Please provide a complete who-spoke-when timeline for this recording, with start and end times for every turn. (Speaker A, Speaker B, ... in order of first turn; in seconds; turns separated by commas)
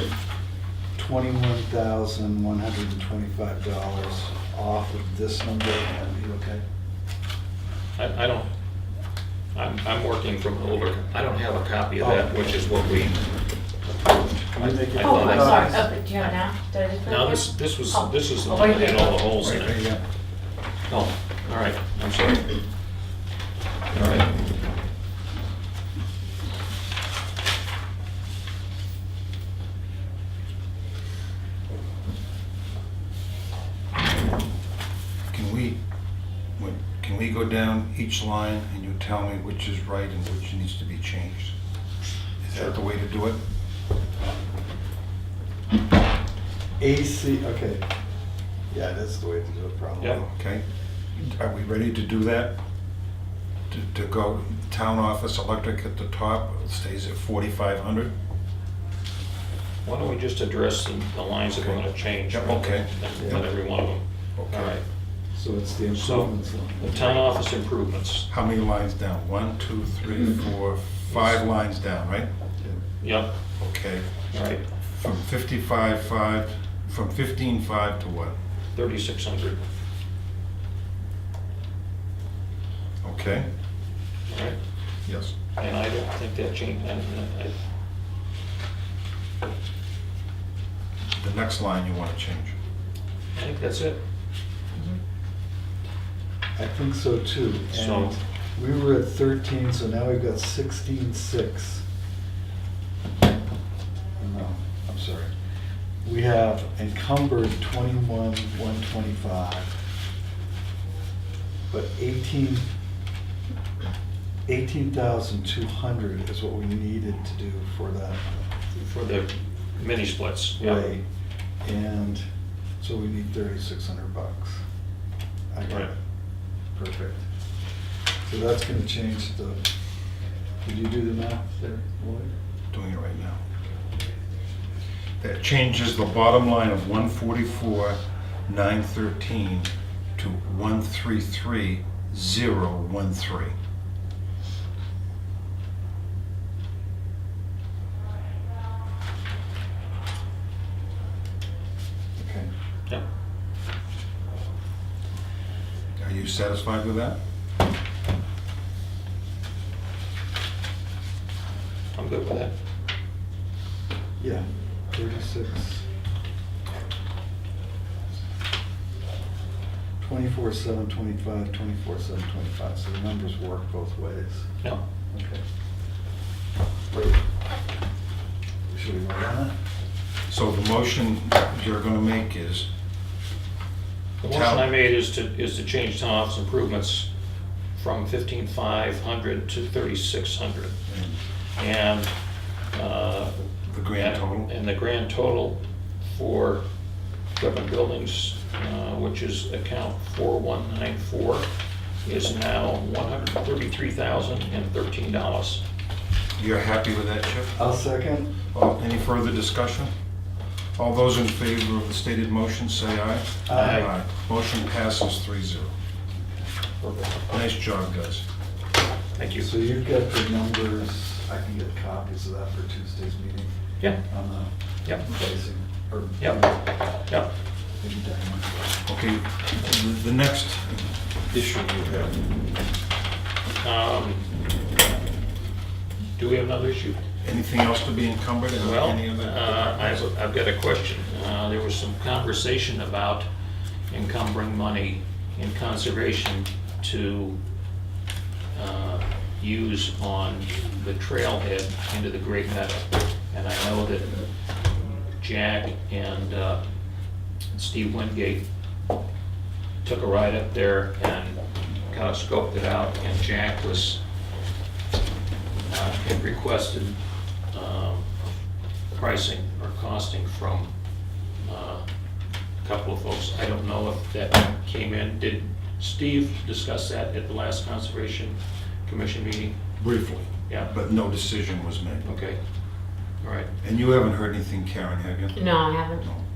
Speaker A: 0.9-6.6, Speaker B: 8.0-8.5, Speaker B: 9.5-13.2, Speaker A: 12.0-12.4, Speaker A: 14.5-15.9, Speaker B: 14.6-15.7, Speaker C: 15.0-19.2, Speaker B: 17.0-19.8, Speaker D: 19.4-20.0, Speaker B: 20.9-22.5, Speaker B: 23.9-24.3, Speaker D: 35.3-35.8, Speaker D: 36.6-41.5, Speaker D: 42.4-43.4, Speaker A: 46.8-47.9, Speaker A: 48.7-50.2, Speaker D: 50.2-52.6, Speaker D: 53.7-58.1, Speaker B: 59.8-64.8, Speaker D: 61.5-63.4, Speaker D: 64.4-64.8, Speaker A: 65.3-67.3, Speaker B: 65.9-68.3, Speaker D: 68.3-72.3, Speaker B: 71.1-71.4, Speaker B: 73.0-73.3, Speaker D: 73.6-74.1, Speaker B: 74.3-74.6, Speaker D: 74.9-78.4, Speaker B: 78.8-79.6, Speaker D: 83.0-83.5, Speaker B: 84.3-84.6, Speaker D: 85.1-85.3, Speaker B: 85.6-87.5, Speaker D: 91.2-92.5, Speaker B: 93.3-94.0, Speaker A: 96.6-101.8, Speaker B: 97.7-98.2, Speaker A: 104.2-105.3, Speaker A: 106.0-109.7, Speaker A: 111.7-112.7, Speaker A: 114.5-118.5, Speaker B: 118.7-120.9, Speaker A: 120.6-121.0, Speaker A: 121.6-122.2, Speaker A: 122.8-124.6, Speaker A: 125.5-126.0, Speaker A: 126.7-127.2, Speaker A: 128.3-129.7, Speaker A: 130.6-132.3, Speaker D: 132.7-133.4, Speaker D: 135.2-143.5, Speaker A: 152.2-152.5, Speaker D: 156.0-157.2, Speaker B: 161.9-162.5, Speaker A: 164.2-165.9, Speaker A: 170.0-174.5, Speaker A: 175.1-175.4, Speaker A: 176.9-177.2, Speaker A: 178.7-179.5, Speaker D: 180.3-182.7, Speaker B: 184.2-187.1, Speaker D: 184.2-184.7, Speaker B: 187.8-190.8, Speaker D: 190.9-191.2, Speaker B: 191.6-192.1, Speaker B: 192.7-196.7, Speaker D: 193.7-194.5, Speaker B: 197.4-201.5, Speaker B: 202.0-205.6, Speaker D: 206.4-207.6, Speaker A: 207.6-208.3, Speaker D: 208.5-209.9, Speaker D: 210.8-215.7, Speaker A: 213.5-213.9, Speaker B: 213.5-213.9, Speaker B: 216.8-217.2, Speaker D: 217.3-218.2, Speaker B: 219.2-219.5, Speaker A: 219.4-223.5, Speaker A: 224.1-226.7, Speaker A: 227.8-228.8, Speaker D: 228.8-232.1, Speaker B: 233.6-234.3, Speaker B: 236.2-237.0, Speaker D: 237.2-240.1, Speaker B: 238.5-243.3, Speaker B: 243.9-247.4, Speaker B: 248.5-254.2, Speaker B: 255.2-256.6, Speaker B: 257.5-258.4, Speaker B: 259.8-264.0, Speaker B: 265.7-267.0, Speaker B: 267.5-268.1, Speaker B: 268.9-270.7, Speaker B: 271.4-271.8, Speaker B: 272.6-279.6, Speaker D: 279.8-282.2, Speaker B: 282.1-282.4, Speaker B: 283.2-283.5, Speaker D: 283.6-286.2, Speaker C: 285.3-286.0